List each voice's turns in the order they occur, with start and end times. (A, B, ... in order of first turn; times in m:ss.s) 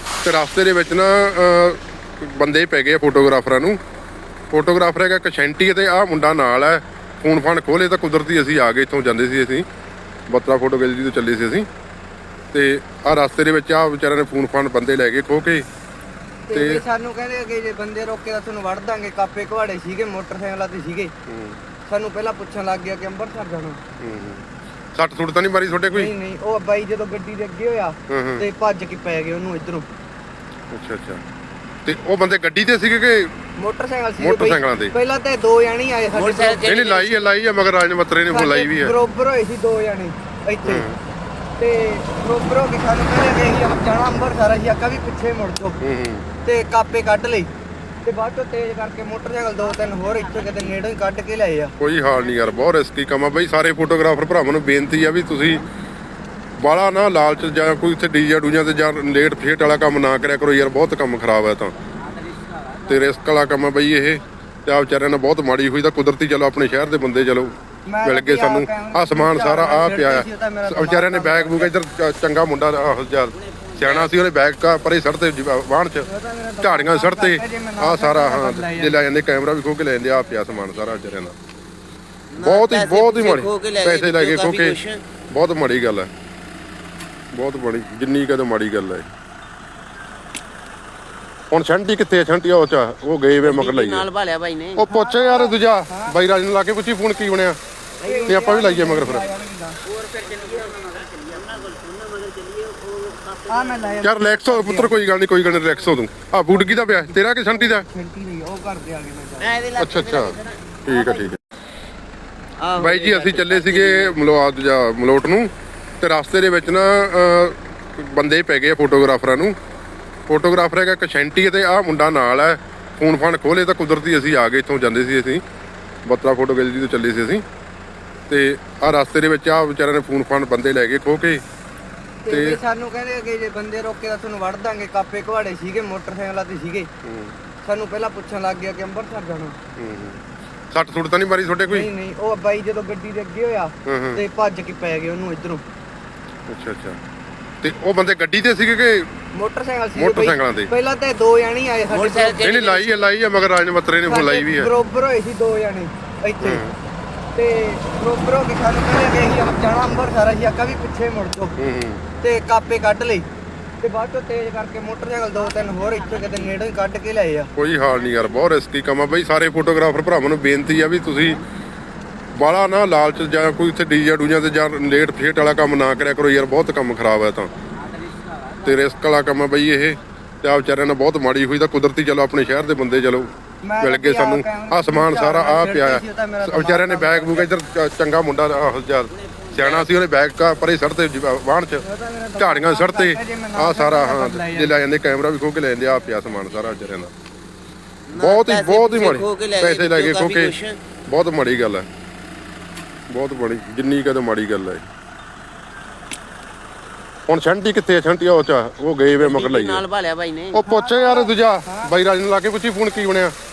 0:00.2-0:03.8 A
0:04.5-0:09.6 A
0:10.3-0:11.7 A
0:12.5-0:15.7 A
0:16.5-0:21.1 B
0:16.5-0:16.8 A
0:21.3-0:21.6 A
0:21.9-0:23.8 B
0:24.0-0:24.4 A
0:25.0-0:26.1 A
0:25.9-0:29.9 B
0:28.1-0:28.4 A
0:30.7-0:31.2 A
0:31.8-0:33.3 A
0:33.6-0:36.7 B
0:34.2-0:34.9 A
0:36.2-0:37.2 C
0:36.6-0:38.9 A
0:38.3-0:40.8 B
0:40.6-0:41.0 A
0:41.6-0:45.8 B
0:45.8-0:46.3 A
0:46.4-0:47.5 B
0:48.0-0:51.7 B
0:51.8-0:55.6 A
0:56.6-1:01.8 A
1:02.9-1:16.1 A
1:07.9-1:11.7 B
1:13.3-1:14.1 C
1:16.0-1:19.0 B
1:16.6-1:21.4 A
1:22.3-1:25.0 C
1:22.4-1:24.8 A
1:25.3-1:26.1 A
1:27.3-1:29.1 A
1:31.5-1:34.0 A
1:33.4-1:34.8 C
1:34.8-1:37.6 A
1:34.9-1:36.2 B
1:38.0-1:38.4 C
1:38.0-1:39.8 B
1:38.3-1:39.3 A
1:40.0-1:44.0 C
1:43.5-1:45.0 B
1:44.0-1:47.9 A
1:46.6-1:49.7 B
1:49.4-1:51.2 C
1:49.8-1:51.4 A
1:52.6-1:54.2 C
1:52.8-1:55.5 A
1:56.0-1:59.6 A
2:00.3-2:05.4 A
2:06.1-2:07.4 A
2:08.3-2:11.4 A
2:12.2-2:16.9 B
2:12.3-2:12.6 A
2:17.0-2:17.4 A
2:17.6-2:19.6 B
2:19.8-2:21.9 A
2:21.7-2:25.6 B
2:23.9-2:24.2 A
2:26.5-2:27.0 A
2:27.6-2:29.1 A
2:29.3-2:32.4 B
2:30.0-2:30.7 A
2:31.9-2:33.1 C
2:32.4-2:34.7 A
2:34.0-2:36.6 B
2:36.4-2:36.8 A
2:37.4-2:41.6 B
2:41.6-2:42.0 A
2:42.2-2:43.3 B
2:43.8-2:47.5 B
2:47.6-2:51.4 A
2:52.4-2:57.5 A
2:58.6-3:11.8 A
3:03.6-3:07.5 B
3:09.3-3:09.9 C
3:11.8-3:14.8 B
3:12.4-3:17.1 A
3:18.1-3:20.8 C
3:18.2-3:20.5 A
3:21.1-3:21.9 A
3:23.1-3:24.8 A
3:27.3-3:29.8 A
3:29.2-3:30.6 C
3:30.5-3:33.3 A
3:30.6-3:31.9 B